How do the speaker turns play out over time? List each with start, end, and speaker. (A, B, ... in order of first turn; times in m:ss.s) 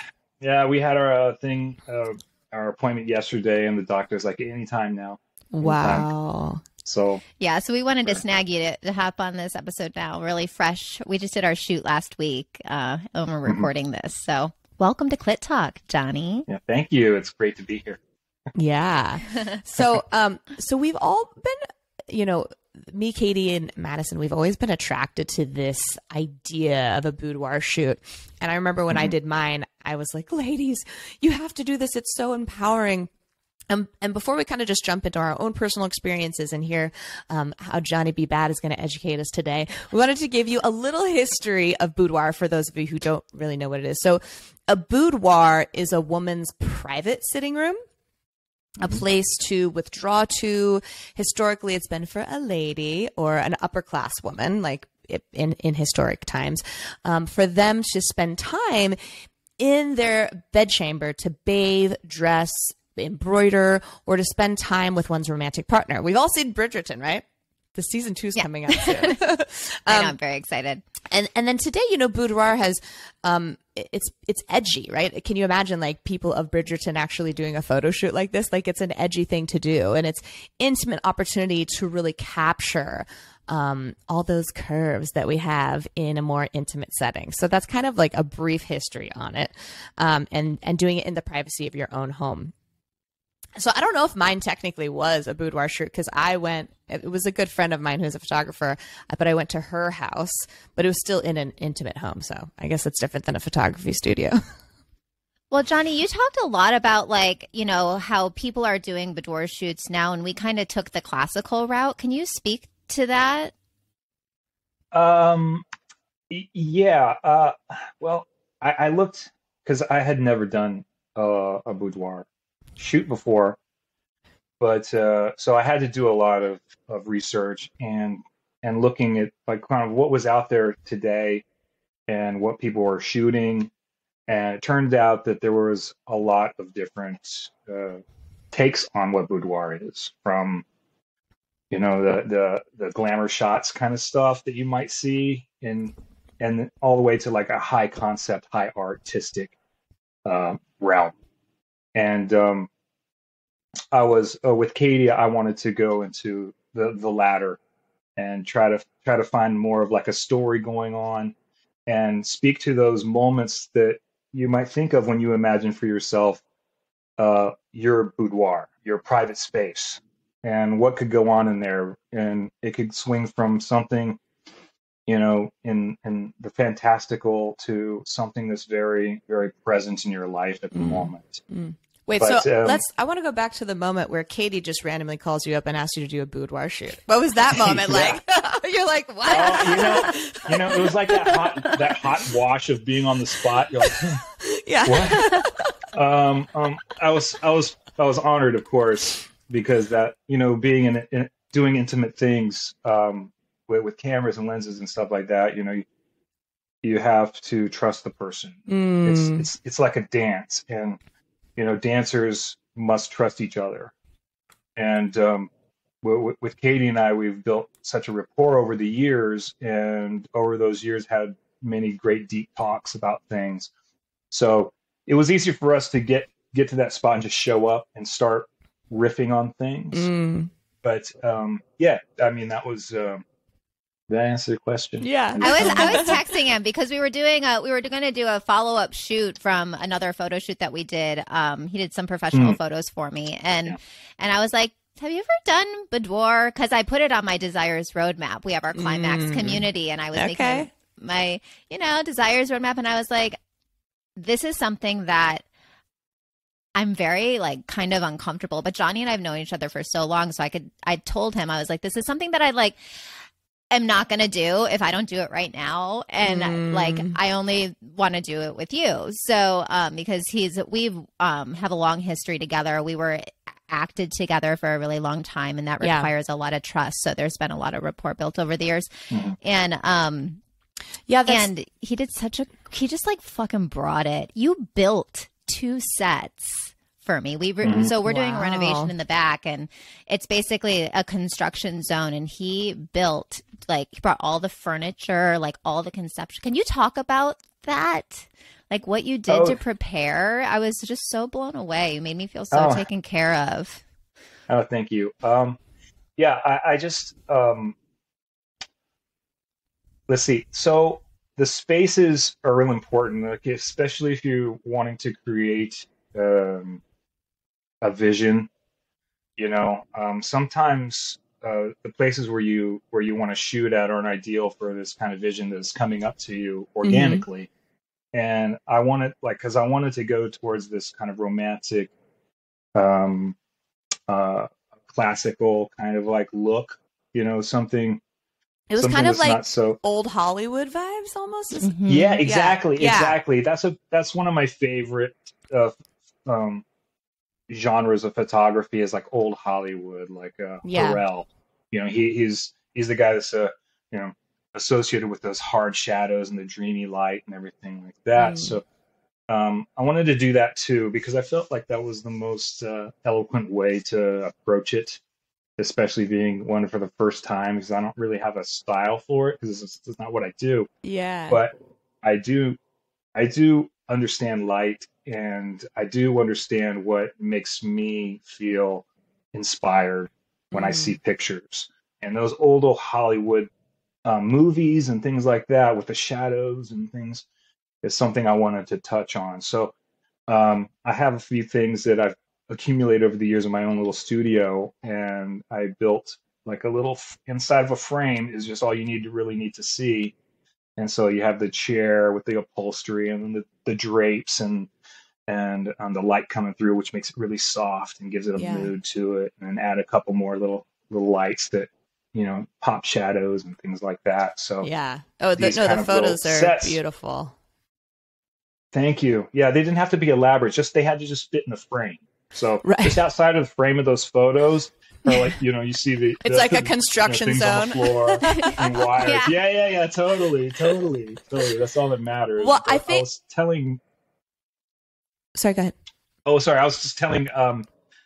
0:00.4-0:06.1 A
0:05.5-0:06.6 B
0:06.8-0:07.2 A
0:07.4-0:16.5 C
0:16.5-0:18.0 A
0:18.6-0:33.1 B
0:33.7-0:47.8 B
0:48.8-0:59.0 B
0:59.6-1:10.2 B
1:08.7-1:09.2 C
1:09.9-1:10.8 C
1:11.1-1:32.5 B
1:33.6-1:44.4 B
1:45.5-1:53.5 C
1:54.9-1:55.6 A
1:56.3-2:02.3 A
2:02.8-2:03.6 A
2:04.6-2:11.4 A
2:12.1-2:13.7 A
2:14.3-2:20.6 A
2:21.7-2:29.6 A
2:30.2-2:31.1 A
2:32.0-2:32.7 A
2:33.9-2:37.6 A
2:38.2-2:41.3 A
2:41.9-2:46.4 A
2:47.2-2:54.2 A
2:55.1-3:01.4 A
3:00.7-3:11.8 B
3:02.2-3:02.8 A
3:07.5-3:08.2 A
3:09.3-3:14.2 A
3:13.9-3:15.7 B
3:14.8-3:15.3 A
3:15.9-3:25.8 A
3:26.8-3:31.0 A
3:28.7-3:29.4 B
3:31.6-3:33.9 A
3:34.8-3:35.5 A
3:36.0-3:43.7 A
3:44.3-3:50.1 A
3:49.9-3:50.5 B
3:50.8-3:53.2 A
3:54.1-3:56.2 A
3:55.0-3:56.2 B
3:55.4-4:13.4 C
4:02.3-4:02.6 A
4:08.7-4:10.7 B
4:14.2-4:15.4 C
4:16.8-4:22.8 C
4:23.7-4:40.4 C
4:26.2-4:27.2 B
4:35.8-4:36.1 B
4:41.1-4:41.5 B
4:41.3-5:03.8 C
4:47.6-4:47.9 A
4:48.0-4:48.9 B
4:59.3-4:59.6 A
5:02.5-5:02.9 A
5:04.5-5:05.6 A
5:06.2-5:07.8 A
5:10.1-5:16.8 A
5:17.8-5:18.5 A
5:19.4-5:27.5 A
5:26.8-5:27.2 B
5:28.1-5:31.9 A
5:32.8-5:33.4 A
5:34.1-5:38.0 A
5:38.7-5:41.7 B
5:38.8-5:39.8 A
5:41.6-5:42.2 C
5:41.9-5:46.6 A
5:42.2-5:43.2 B
5:47.5-5:58.6 A
5:50.6-5:51.0 B
5:58.2-5:58.6 B
5:59.3-6:05.0 A
6:05.6-6:10.7 A
6:10.8-6:11.4 B
6:11.3-6:12.6 A
6:13.2-6:23.5 A
6:20.6-6:20.9 B
6:24.0-6:27.2 A
6:27.8-6:29.7 A
6:30.3-6:40.1 A
6:40.8-6:44.7 A
6:45.3-6:54.7 A
6:48.4-6:48.7 B
6:54.6-6:57.3 B
6:55.4-6:56.8 A
6:58.7-7:13.8 A
7:02.6-7:03.0 B
7:06.2-7:08.6 B
7:08.3-7:09.4 C
7:12.4-7:13.0 B
7:15.4-7:15.8 B
7:16.3-7:17.7 A